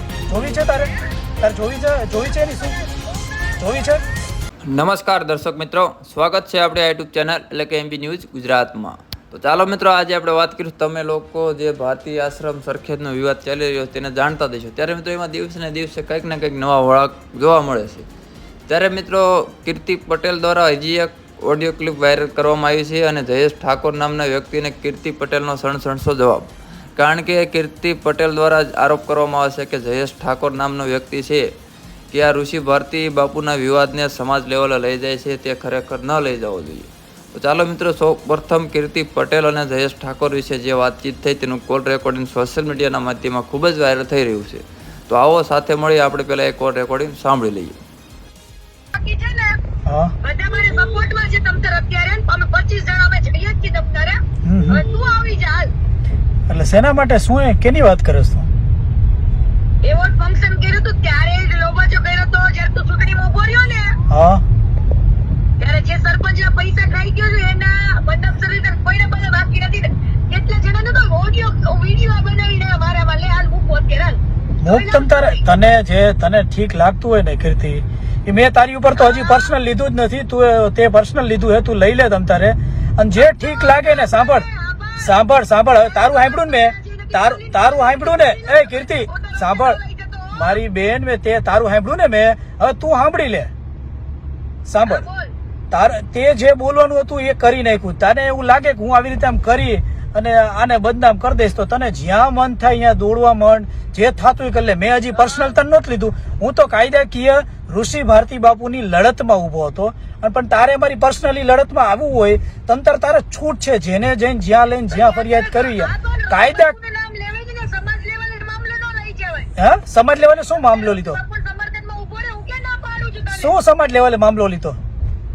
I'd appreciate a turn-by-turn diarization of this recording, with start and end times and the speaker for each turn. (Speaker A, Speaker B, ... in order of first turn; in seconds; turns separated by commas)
Speaker A: 0.3-2.8, Speaker B: 2.9-3.5, Speaker A: 3.6-4.0, Speaker C: 4.7-18.1, Speaker C: 18.7-31.5, Speaker C: 32.1-47.8, Speaker B: 48.9-49.6, Speaker A: 49.9-50.1, Speaker B: 50.2-55.7, Speaker A: 54.4-54.8, Speaker A: 56.5-58.5, Speaker B: 59.8-64.0, Speaker A: 64.1-64.4, Speaker B: 65.6-75.4, Speaker A: 74.6-84.4, Speaker B: 79.0-79.5, Speaker B: 83.1-90.6, Speaker A: 85.0-89.8, Speaker A: 90.3-93.5, Speaker A: 94.7-95.0, Speaker B: 94.8-95.3, Speaker A: 95.7-116.7, Speaker B: 105.1-105.5, Speaker B: 114.9-119.5, Speaker A: 119.6-121.2, Speaker B: 120.5-123.5, Speaker A: 123.3-124.8